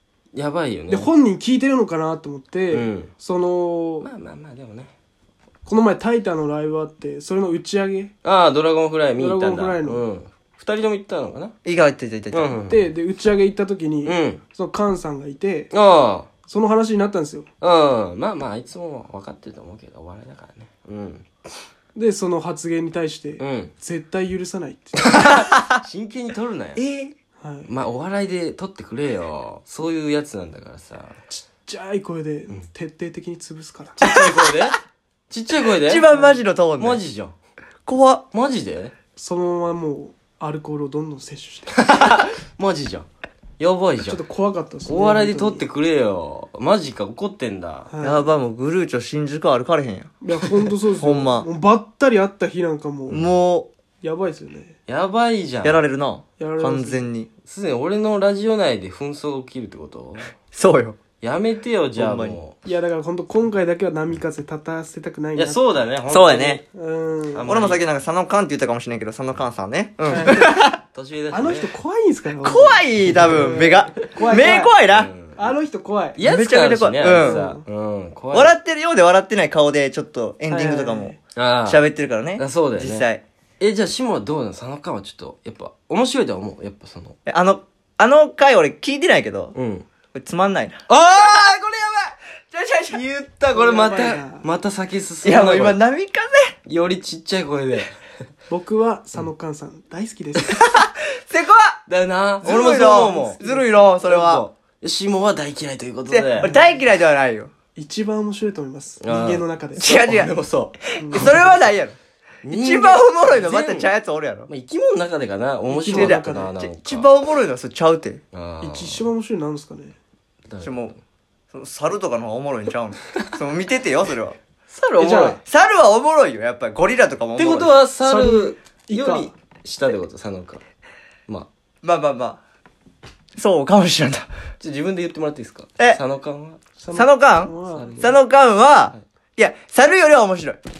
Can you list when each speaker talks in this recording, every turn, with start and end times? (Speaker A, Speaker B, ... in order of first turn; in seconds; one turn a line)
Speaker A: 0.3-1.1
Speaker B: 0.9-4.1
Speaker A: 2.7-3.1
Speaker A: 4.0-4.9
Speaker B: 5.6-8.1
Speaker A: 8.2-11.5
Speaker B: 9.2-10.0
Speaker C: 11.6-12.6
Speaker A: 12.3-12.9
Speaker B: 12.7-15.7
Speaker A: 14.0-14.4
Speaker A: 15.7-16.3
Speaker B: 16.4-17.5
Speaker A: 17.6-21.2
Speaker B: 21.9-25.4
Speaker A: 23.4-23.7
Speaker A: 25.0-26.8
Speaker C: 25.3-25.8
Speaker C: 26.8-27.1
Speaker B: 27.4-27.7
Speaker A: 27.7-31.1
Speaker B: 31.3-34.0
Speaker A: 34.0-34.8
Speaker C: 34.0-34.4
Speaker A: 35.3-36.1
Speaker C: 35.8-37.0
Speaker B: 36.1-36.4
Speaker A: 36.8-37.3
Speaker C: 37.9-38.2
Speaker A: 38.3-38.9
Speaker B: 39.1-41.8
Speaker A: 41.7-43.1
Speaker A: 43.6-44.2
Speaker B: 44.0-45.7
Speaker A: 44.9-47.9
Speaker B: 47.9-48.3
Speaker C: 48.0-50.1
Speaker B: 50.2-53.2
Speaker C: 50.9-51.5
Speaker A: 53.1-53.4
Speaker C: 53.1-53.7
Speaker B: 54.0-54.7
Speaker A: 54.9-55.8
Speaker C: 55.6-57.3
Speaker B: 56.4-57.1
Speaker A: 57.5-60.3
Speaker C: 60.5-61.0
Speaker A: 61.2-62.6
Speaker C: 62.0-62.4
Speaker B: 62.6-65.6
Speaker A: 65.3-66.6
Speaker C: 66.1-66.6
Speaker B: 66.7-67.5
Speaker A: 67.3-67.8
Speaker C: 67.4-70.8
Speaker B: 70.1-70.6
Speaker A: 70.1-71.7
Speaker B: 71.3-74.8
Speaker C: 72.4-75.1
Speaker A: 74.9-75.5
Speaker B: 75.3-76.2
Speaker A: 76.2-78.5
Speaker C: 76.2-77.4
Speaker B: 77.0-77.6
Speaker C: 78.3-83.2
Speaker B: 80.5-81.2
Speaker A: 81.3-81.8
Speaker A: 82.4-83.1
Speaker A: 83.6-87.1
Speaker C: 87.2-89.5
Speaker A: 89.5-89.8
Speaker C: 90.1-91.5
Speaker A: 90.9-92.1
Speaker C: 92.5-93.0
Speaker A: 92.9-95.8
Speaker B: 93.5-94.5
Speaker C: 95.2-96.5
Speaker A: 96.7-97.9
Speaker B: 98.5-100.6
Speaker C: 100.4-101.8
Speaker A: 101.9-103.4
Speaker C: 102.4-104.5
Speaker B: 103.4-103.8
Speaker A: 104.0-106.5
Speaker C: 106.1-107.5
Speaker B: 106.4-106.7
Speaker B: 107.8-110.0
Speaker A: 109.0-111.5
Speaker C: 109.8-110.3
Speaker C: 110.9-111.9
Speaker B: 111.0-111.5
Speaker A: 112.4-113.9
Speaker C: 112.5-114.5
Speaker A: 114.5-117.1
Speaker B: 115.7-116.5
Speaker C: 115.9-118.2
Speaker A: 118.3-119.1
Speaker B: 118.6-119.9
Speaker A: 120.5-120.9
Speaker C: 120.6-120.9
Speaker C: 121.5-124.4
Speaker A: 124.7-125.4
Speaker B: 125.0-125.4
Speaker C: 125.4-127.7
Speaker A: 127.3-130.6
Speaker B: 128.0-129.3
Speaker C: 131.8-132.4
Speaker C: 133.3-134.2
Speaker A: 134.6-136.6
Speaker B: 136.8-138.1
Speaker C: 136.9-140.6
Speaker A: 137.7-138.2